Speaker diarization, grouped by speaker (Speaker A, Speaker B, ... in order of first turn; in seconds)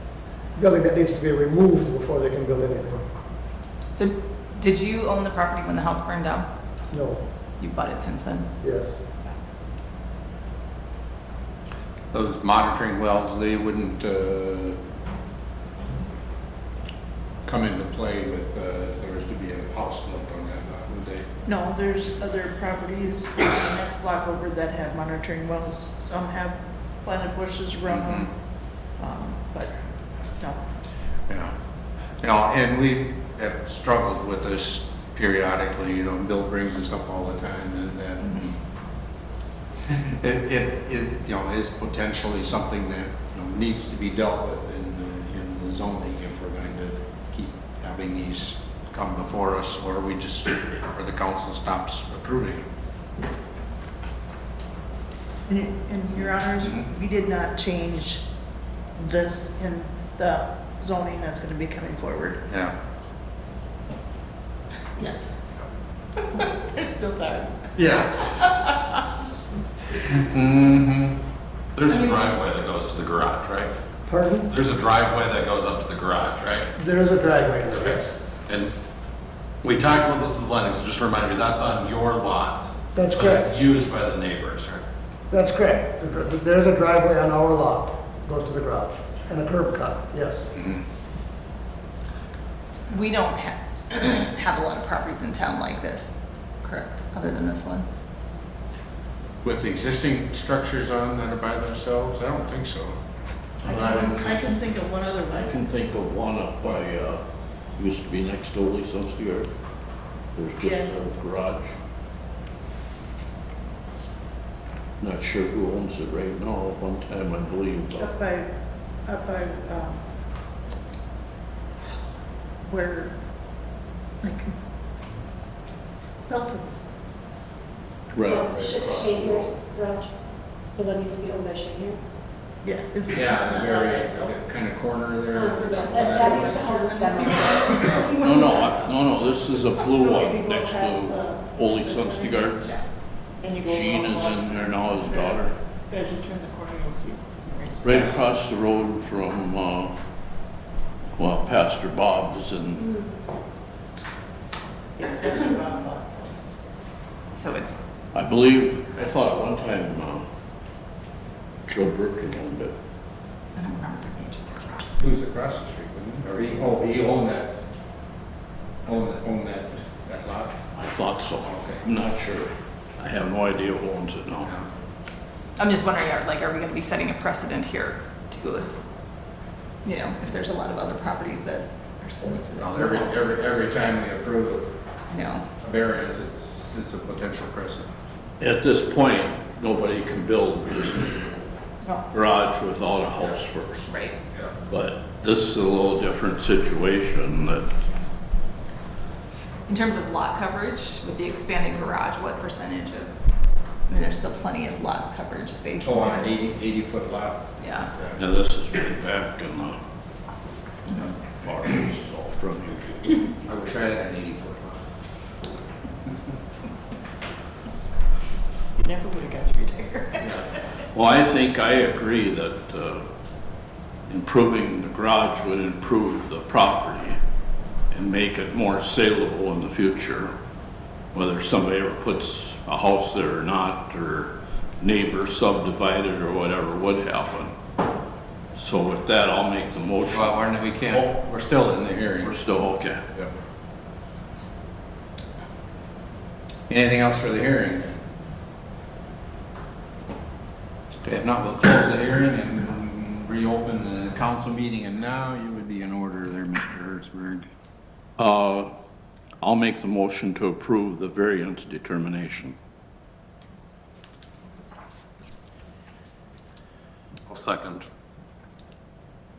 Speaker A: 0.6-3.0, 6.9-7.2, 8.6-8.9, 74.0-74.5, 76.8-78.1, 82.9-83.5, 85.3-90.4
Speaker B: 3.9-6.5, 7.6-8.5, 65.0-65.2, 66.2-67.6, 68.3-68.9, 71.8-72.4, 92.9-97.8, 135.7-138.9, 157.3-157.8, 163.5-164.9, 175.6-178.7, 179.8-183.1, 185.1-185.4, 193.9-194.2, 199.7-203.1, 203.9-206.3, 207.6-207.9
Speaker C: 12.1-14.8, 17.4-21.3, 27.9-28.3, 32.2-38.3, 39.9-52.6, 56.6-56.9, 62.5-62.7, 67.7-68.5, 69.9-71.2, 90.5-90.8, 99.4-103.0, 103.7-104.2, 128.5-129.5, 133.1-136.7, 165.0-167.6, 168.8-170.6, 171.4-171.8, 174.4-174.7, 182.6-184.7, 185.6-187.9, 205.8-208.2, 213.4-214.8, 240.1-242.5, 246.7-248.0, 251.0-257.4
Speaker D: 21.4-28.3, 29.0-29.7, 55.5-58.2, 59.0-62.4, 103.6-105.5, 110.6-110.9, 118.0-118.5, 119.0-120.0, 122.6-123.2, 124.2-124.5, 126.3-126.8, 132.6-133.7, 139.9-142.5, 143.4-148.1, 154.9-156.8, 218.8-220.2
Speaker E: 71.8-73.7, 74.5-76.7, 77.7-78.0, 78.5-78.7, 79.6-84.8, 267.3-267.9
Speaker F: 103.6-104.1, 105.3-107.2, 107.8-109.5, 110.3-111.7, 115.0-118.1, 128.1-128.5, 138.2-142.7, 143.6-145.5, 147.8-149.9, 151.2-152.9, 158.1-160.2, 161.7-162.7, 170.8-174.5, 188.4-191.2, 192.1-193.9, 194.7-197.7, 208.2-209.8, 211.2-213.2, 220.9-223.0, 224.1-227.2, 227.9-230.3, 231.1-237.5, 238.6-240.3, 242.2-243.0, 258.2-258.7, 259.4-262.5
Speaker G: 128.3-130.1, 130.7-132.0, 133.4-134.1, 135.3-137.5, 138.1-138.5